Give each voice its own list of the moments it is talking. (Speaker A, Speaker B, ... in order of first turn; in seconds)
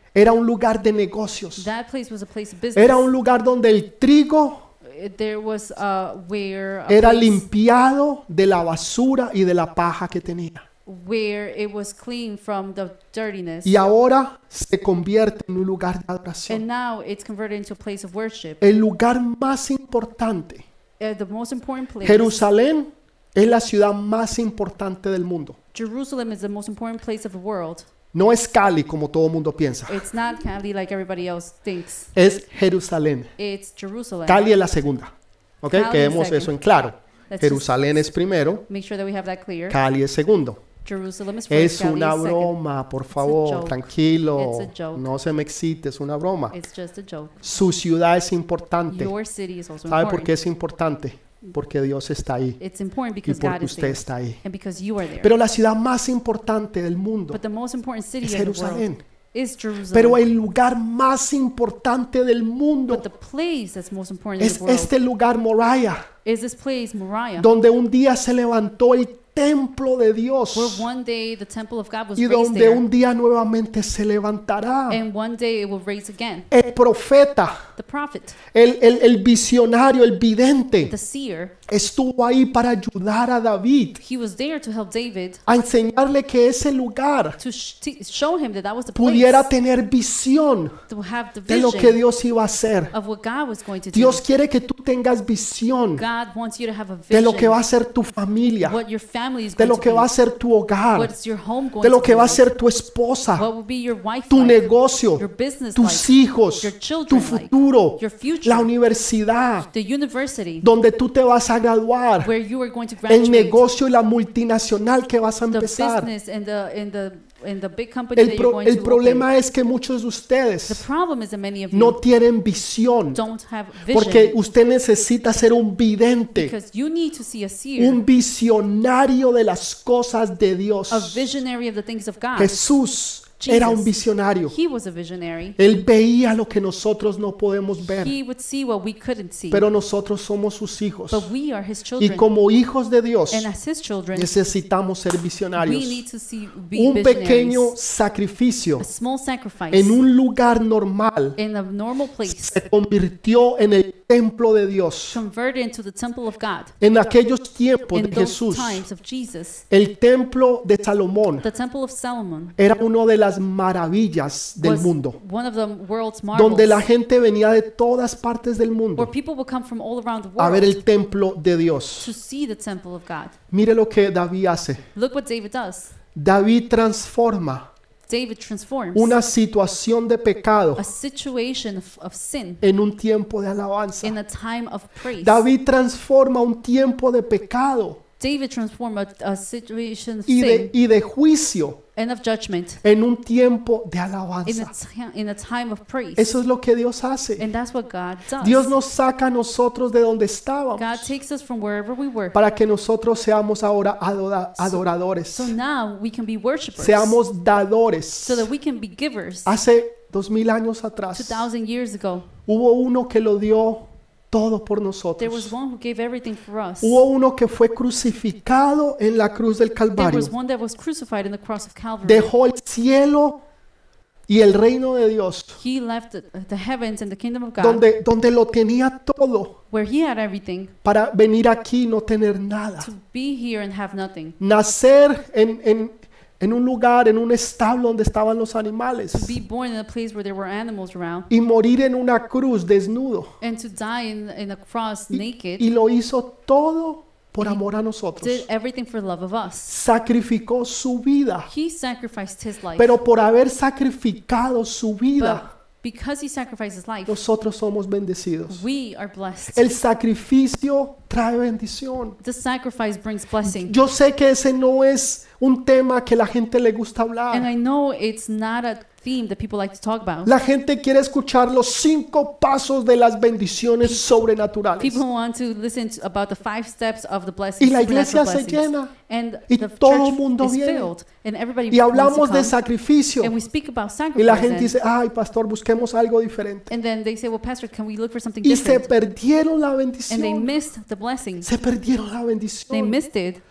Speaker A: 0.1-1.7, 2.8-4.7, 6.9-10.7, 13.7-16.6, 18.6-20.7, 22.0-25.6, 28.1-30.0, 32.1-33.3, 34.3-38.6, 39.7-40.6, 41.5-46.6, 47.4-49.1, 49.9-52.6, 53.2-54.4, 55.2-57.4, 58.2-59.0, 59.9-63.0, 64.4-66.1, 67.4-70.8, 72.2-75.0, 76.5-77.6, 78.5-80.9, 81.7-84.0, 85.5-87.4, 89.0-90.8, 91.5-92.9, 93.9-96.0, 97.1-98.8, 99.6-101.1, 101.8-103.5, 104.3-105.2, 105.8-109.7, 110.6-112.3, 113.1-116.1, 118.2-120.8, 121.7-123.2, 123.9-126.5, 127.8-131.2, 132.4-134.6, 135.6-138.1, 139.5-141.3, 142.0-143.5, 144.1-146.0, 146.8-148.9, 149.7-151.4, 152.3-155.2, 156.8-158.8, 159.7-161.5, 162.6-165.2, 166.3-169.1, 170.4-172.1, 173.5-174.8, 176.1-177.7, 178.9-180.8, 182.6-184.2, 185.2-188.0, 190.3-191.8, 192.8-194.7, 196.2-197.5, 198.4-201.1, 202.3-205.5, 206.8-208.5, 209.5-211.4, 212.4-215.5, 216.8-220.3, 222.0-223.4, 224.3-225.6, 227.6-229.6, 230.8-232.9, 234.4-239.4, 241.3-243.3, 245.1-248.4, 249.7-251.5, 252.8-255.5, 257.1-258.6, 259.5-262.2, 263.4-267.5, 270.2-275.0, 277.6-278.9, 279.5-280.9, 281.7-283.3, 284.2-286.7, 288.4-290.5, 291.4-293.0
Speaker B: 1.6-3.1, 4.8-7.5, 10.9-13.8, 16.5-18.6, 21.0-22.5, 25.7-27.9, 29.9-32.1, 33.4-34.5, 35.7-36.5, 37.3-37.8, 38.7-39.8, 40.8-42.6, 43.1-45.1, 46.5-47.4, 48.9-50.3, 52.6-55.3, 57.3-60.2, 62.9-64.9, 66.2-67.5, 70.5-72.8, 74.9-76.5, 77.8-78.4, 80.9-81.5, 84.0-85.4, 87.4-89.5, 90.9-92.0, 92.9-94.2, 96.0-97.6, 98.6-100.1, 100.9-102.5, 103.3-108.7, 109.7-110.7, 112.2-113.7, 115.5-119.3, 120.7-122.0, 123.1-124.4, 126.3-128.0, 130.9-132.7, 133.4-135.6, 137.8-139.7, 141.1-142.3, 143.3-144.3, 145.6-147.8, 148.8-150.0, 151.4-152.6, 155.1-156.7, 157.9-159.6, 161.4-162.6, 164.6-166.9, 169.0-170.8, 172.0-173.4, 174.9-175.9, 178.1-179.2, 180.8-182.6, 184.0-185.5, 188.2-190.7, 192.0-192.8, 194.4-196.4, 197.4-198.8, 200.8-202.4, 204.6-207.2, 208.2-209.6, 211.1-212.3, 215.2-217.0, 220.0-222.3, 225.6-227.8, 229.7-230.7, 232.8-234.4, 239.1-241.3, 243.4-245.7, 248.2-249.7, 251.5-253.0, 255.2-257.2, 258.5-259.7, 262.2-263.8, 267.3-270.3, 273.8-274.1, 274.8-282.6, 283.2-284.8, 286.7-288.9, 290.1-291.5, 292.7-293.4